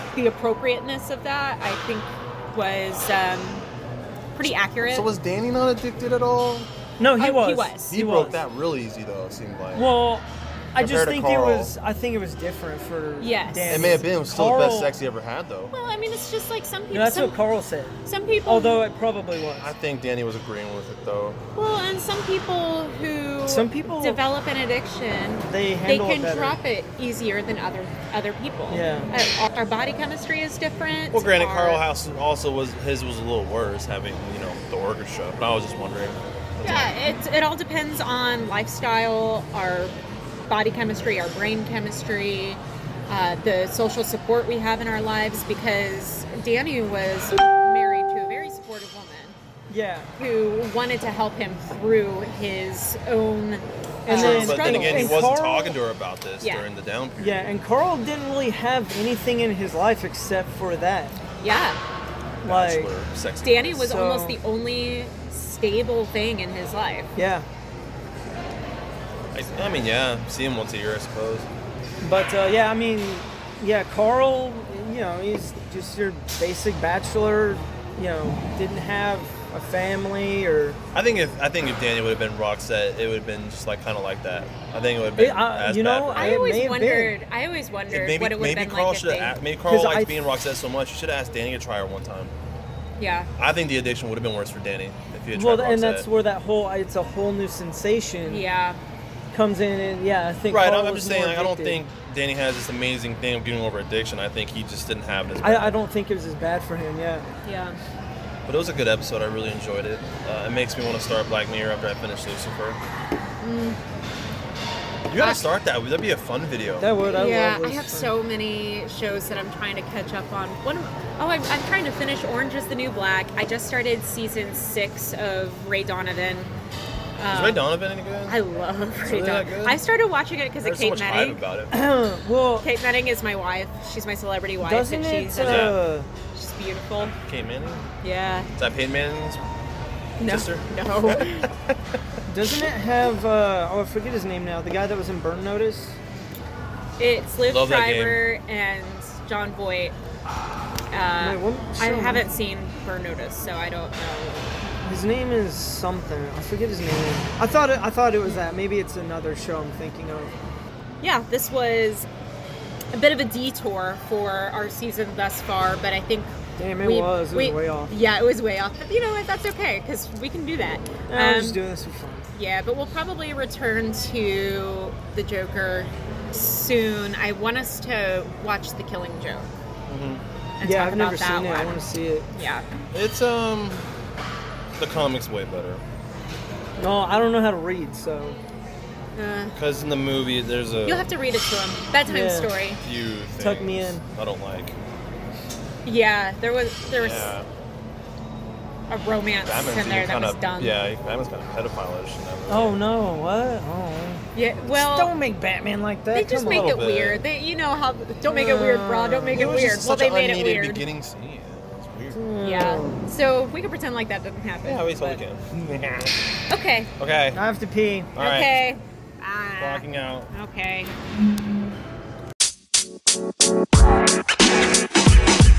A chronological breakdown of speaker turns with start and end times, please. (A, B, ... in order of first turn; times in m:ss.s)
0:00.1-0:03.7 A
0:04.4-0:05.1 A
0:04.9-0:06.7 B
0:07.0-0:08.4 C
0:07.2-0:07.9 A
0:07.9-0:09.9 B
0:09.7-0:14.9 C
0:10.8-0:11.8 B
0:13.2-0:14.0 A
0:13.7-0:15.7 B
0:15.7-0:17.4 A
0:16.9-0:19.7 C
0:18.1-0:18.8 A
0:19.6-0:21.4 B
0:21.6-0:31.8 A
0:23.4-0:24.2 C
0:25.4-0:26.6 C
0:28.7-0:29.1 C
0:31.1-0:37.0 B
0:36.6-0:39.9 A
0:40.5-0:49.4 A
0:49.7-0:50.1 C
0:50.2-0:55.2 A
0:54.1-0:55.8 C
0:54.1-0:57.5 B
0:56.4-0:56.7 A
0:57.2-1:01.2 C
1:01.4-1:01.8 A
1:02.4-1:03.8 B
1:02.4-1:02.9 C
1:03.4-1:07.1 A
1:03.7-1:04.4 C
1:07.2-1:07.5 C
1:09.3-1:11.5 B
1:12.0-1:20.8 C
1:20.9-1:26.4 B
1:25.2-1:27.1 C
1:26.2-1:29.4 A
1:27.9-1:32.3 B
1:29.7-1:30.2 C
1:33.0-1:33.3 A
1:33.4-1:36.1 B
1:35.3-1:38.5 C
1:38.3-1:38.8 A
1:39.3-1:41.9 C
1:40.5-1:45.8 B
1:45.4-1:47.3 C
1:47.4-1:47.8 A
1:48.5-1:52.8 B
1:53.4-1:53.8 A
1:55.1-1:56.9 B
1:56.8-1:58.1 C
1:57.0-2:06.5 A
2:07.2-2:07.6 A
2:07.3-2:08.4 B
2:08.3-2:11.4 A
2:09.0-2:09.8 B
2:10.6-2:11.7 B
2:11.7-2:12.7 C
2:12.6-2:15.8 A
2:14.6-2:16.1 C
2:15.4-2:15.8 B
2:16.3-2:17.2 A
2:17.3-2:17.9 B
2:18.0-2:18.5 A
2:18.6-2:19.4 B
2:20.2-2:21.5 A
2:20.2-2:22.0 B
2:22.3-2:26.0 C
2:27.0-2:30.0 A
2:27.5-2:28.2 B
2:30.9-2:34.6 A
2:31.2-2:32.2 C
2:34.8-2:40.3 C
2:41.0-2:42.1 A
2:42.9-2:51.6 A
2:46.6-2:47.9 C
2:51.1-2:52.3 C
2:52.4-2:59.5 A
2:59.9-3:00.2 B
3:00.6-3:01.8 A
3:00.6-3:02.3 C
3:02.4-3:02.7 A
3:02.9-3:03.9 B
3:04.8-3:05.8 B
3:06.8-3:08.4 C
3:09.2-3:09.6 A
3:09.6-3:11.1 B
3:10.8-3:12.8 A
3:12.1-3:12.5 C
3:12.8-3:14.8 B
3:13.4-3:14.0 C
3:15.8-3:17.3 A
3:16.9-3:17.5 B
3:18.9-3:20.8 A
3:19.4-3:22.8 B
3:22.5-3:26.7 C
3:24.3-3:25.1 A
3:26.1-3:30.8 A
3:26.4-3:27.2 B
3:28.3-3:29.5 C
3:29.3-3:32.2 B
3:32.1-3:33.0 C
3:32.4-3:35.2 A
3:34.6-3:36.2 B
3:36.5-3:36.9 A
3:37.0-3:37.4 B
3:37.3-3:38.1 C
3:38.2-3:38.6 B
3:38.2-3:41.0 A
3:39.6-3:40.3 B